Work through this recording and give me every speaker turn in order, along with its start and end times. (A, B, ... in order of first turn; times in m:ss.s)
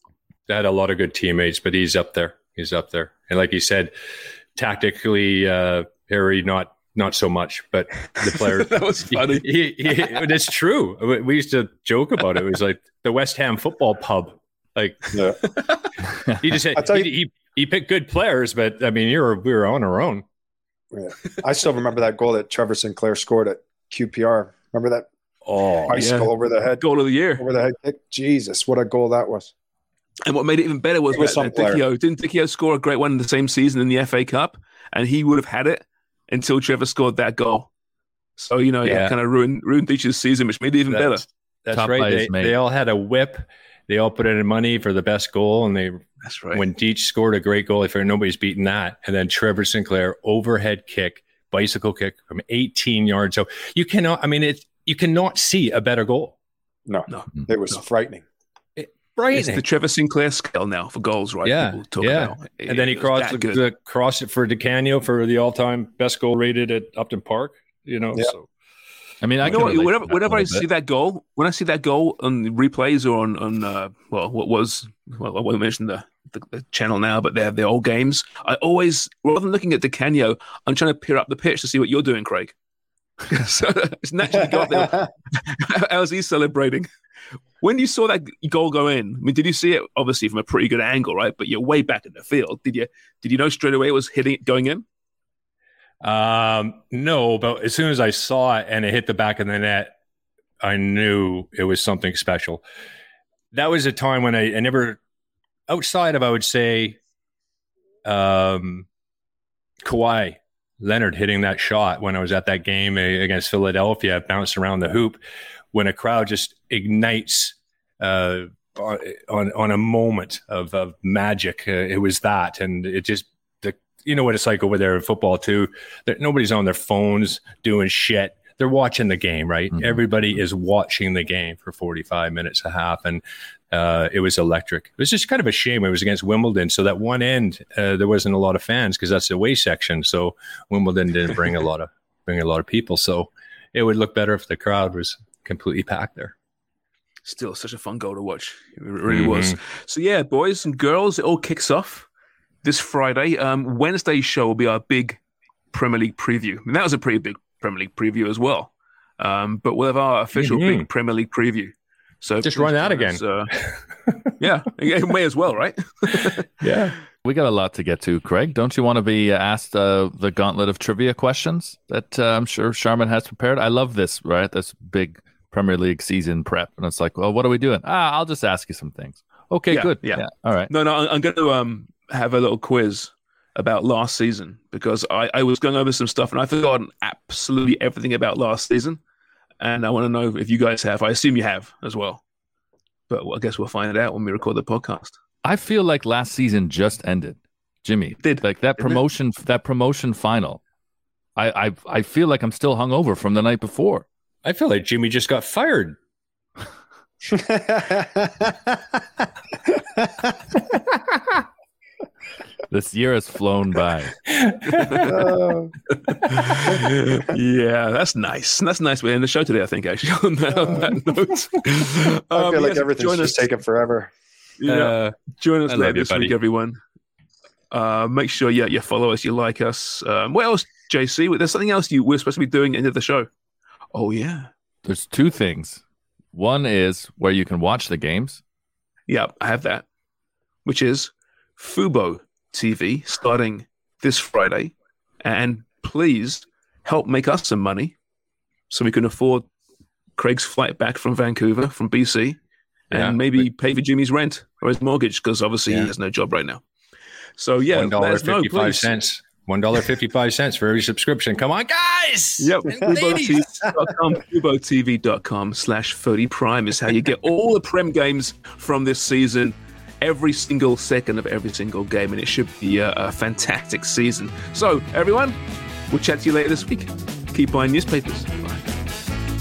0:00.5-0:03.9 A
0:04.6-0:15.2 A
0:08.2-0:09.5 B
0:16.4-0:20.2 A
0:16.8-0:17.1 C
0:20.9-0:25.1 C
0:25.5-0:26.0 A
0:25.9-0:26.8 C
0:25.9-0:27.5 B
0:27.4-0:29.5 C
0:30.2-0:37.7 B
0:31.1-0:31.8 C
0:38.4-0:41.3 B
0:38.8-0:39.1 A
0:40.9-0:56.4 A
0:41.7-0:42.6 D
0:46.2-0:46.6 B
0:56.9-0:58.2 C
0:57.1-0:57.8 B
0:58.8-0:59.6 A
0:59.3-1:03.6 B
1:01.4-1:08.5 A
1:09.2-1:10.7 D
1:09.4-1:22.6 B
1:23.3-1:26.9 B
1:24.6-1:25.1 C
1:27.6-1:34.9 B
1:36.0-1:39.9 A
1:40.6-1:42.6 A
1:43.5-1:45.0 A
1:45.7-1:47.0 A
1:48.0-1:48.9 A
1:49.8-1:55.2 A
1:55.7-2:26.3 A
2:27.2-2:32.1 B
2:29.1-2:29.6 A
2:32.6-2:35.2 B
2:35.7-2:43.6 B
2:40.4-2:40.9 A
2:42.4-2:44.3 A
2:44.4-2:46.5 B
2:46.6-2:47.0 A
2:47.2-3:00.7 D
2:59.7-3:09.0 B
3:09.6-3:12.2 B
3:13.1-3:15.2 B
3:15.4-3:20.6 D
3:18.2-3:19.0 B
3:21.4-3:24.1 D
3:24.4-3:26.0 A
3:27.3-3:28.5 C
3:32.7-3:34.2 D
3:34.3-3:34.8 A
3:34.7-3:35.1 B
3:35.1-3:35.7 C
3:35.9-3:43.5 B
3:42.3-3:44.1 C
3:44.6-3:46.8 B
3:44.7-3:45.0 A
3:45.7-3:46.3 A
3:47.7-3:53.3 B
3:53.9-3:54.5 B
3:54.8-3:55.8 D
3:56.3-3:58.4 D
3:59.1-3:59.9 B
4:00.6-4:08.0 B
4:08.7-4:09.5 B
4:10.2-4:16.6 B
4:12.9-4:13.4 A
4:17.4-4:19.0 B
4:17.7-4:23.5 A
4:22.4-4:35.4 B
4:22.7-4:22.9 C
4:35.9-4:38.7 B